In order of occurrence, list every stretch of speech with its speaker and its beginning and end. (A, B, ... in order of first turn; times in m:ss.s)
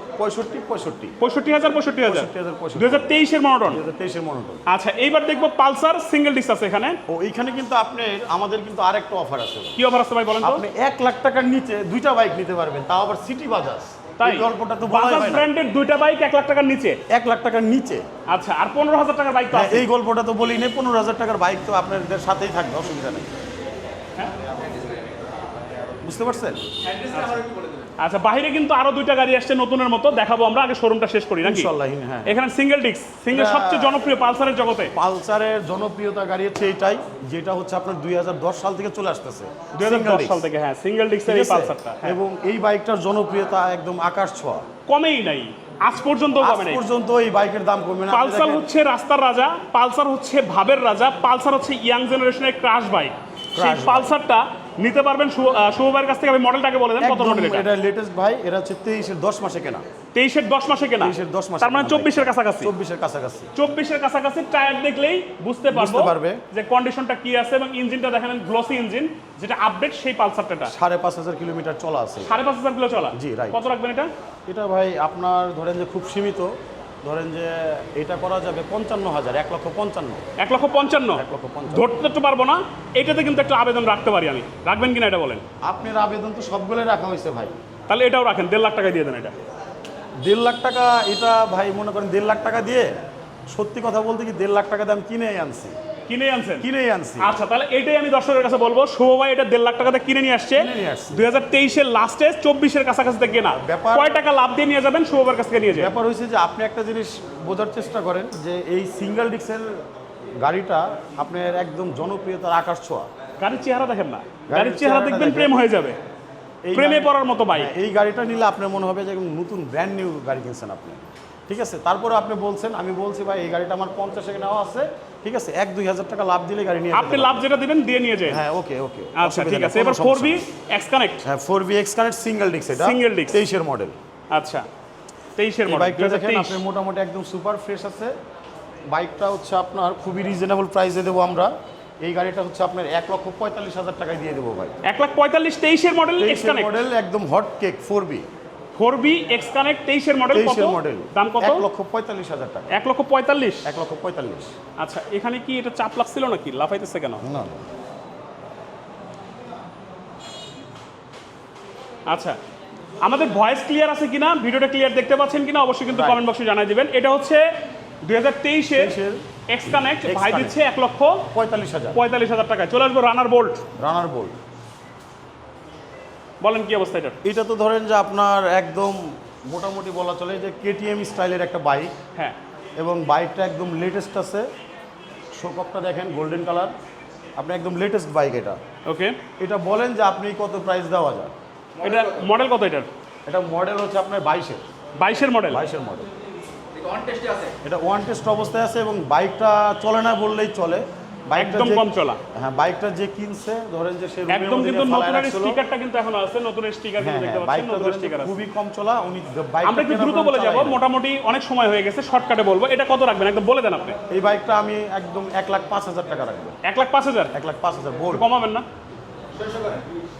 0:00.2-0:01.2 A
0:01.2-0:03.8 B
0:02.0-0:04.6 A
0:04.7-0:07.0 B
0:07.1-0:09.8 A
0:09.8-0:10.6 B
0:10.4-0:15.5 A
0:14.2-0:17.0 B
0:17.1-0:18.1 A
0:18.3-0:19.8 B
0:19.5-0:23.3 A
0:24.6-0:25.1 C
0:26.0-0:26.7 A
0:26.8-0:27.9 C
0:28.0-0:31.7 B
0:31.4-0:32.4 A
0:32.2-0:34.9 B
0:33.3-0:34.0 A
0:34.9-0:40.4 A
0:39.8-0:42.2 B
0:41.2-0:44.7 A
0:44.9-0:46.8 B
0:46.4-0:48.6 A
0:48.1-0:57.7 B
0:53.5-0:54.2 A
0:57.0-0:59.8 A
1:00.1-1:02.7 B
1:01.0-1:03.5 A
1:03.5-1:10.7 B
1:05.7-1:06.4 A
1:10.7-1:12.4 A
1:12.2-1:14.1 B
1:13.1-1:13.6 A
1:14.5-1:20.2 A
1:20.4-1:25.4 B
1:21.1-1:21.9 A
1:25.6-1:27.6 A
1:27.9-1:29.3 B
1:30.2-1:32.9 A
1:33.5-1:35.7 A
1:36.1-1:36.7 B
1:36.6-1:37.4 A
1:37.2-1:46.0 B
1:40.5-1:41.2 A
1:43.5-1:44.2 A
1:45.7-1:49.8 A
1:50.4-1:53.1 A
1:53.4-1:56.0 B
1:54.5-1:55.5 A
1:56.6-2:07.4 A
1:56.7-1:57.7 B
2:06.9-2:08.4 B
2:08.3-2:10.4 A
2:09.2-2:11.2 B
2:11.2-2:14.0 A
2:12.8-2:13.4 B
2:14.3-2:14.7 B
2:15.4-2:16.6 B
2:15.6-2:18.1 A
2:18.9-2:21.5 A
2:22.0-2:24.8 A
2:24.8-2:26.7 B
2:26.2-2:28.3 A
2:28.8-2:31.6 B
2:30.3-2:32.7 A
2:32.7-2:33.6 B
2:33.6-2:34.5 A
2:34.8-2:37.2 B
2:37.2-2:37.6 A
2:42.1-2:42.4 B
2:43.0-2:47.4 B
2:45.9-2:46.2 A
2:48.0-2:48.9 B
2:48.7-2:49.2 A
2:49.5-2:51.2 B
2:50.0-2:50.6 A
2:51.3-2:52.0 A
2:51.9-2:53.6 B
2:53.8-2:54.4 A
2:56.4-2:57.2 B
2:57.2-3:01.9 A
3:02.8-3:04.5 A
3:05.3-3:06.7 A
3:07.4-3:08.6 A
3:08.8-3:09.2 B
3:09.4-3:11.3 A
3:11.8-3:12.3 C
3:11.8-3:12.9 B
3:13.2-3:14.7 A
3:15.0-3:15.6 B
3:15.5-3:16.1 A
3:16.7-3:17.5 C
3:17.6-3:25.6 A
3:21.4-3:22.2 B
3:24.3-3:28.4 B
3:27.0-3:30.8 A
3:29.6-3:34.0 B
3:34.1-3:36.6 A
3:36.6-3:37.3 B
3:37.3-3:38.2 A
3:38.1-3:38.6 B
3:39.3-3:39.9 C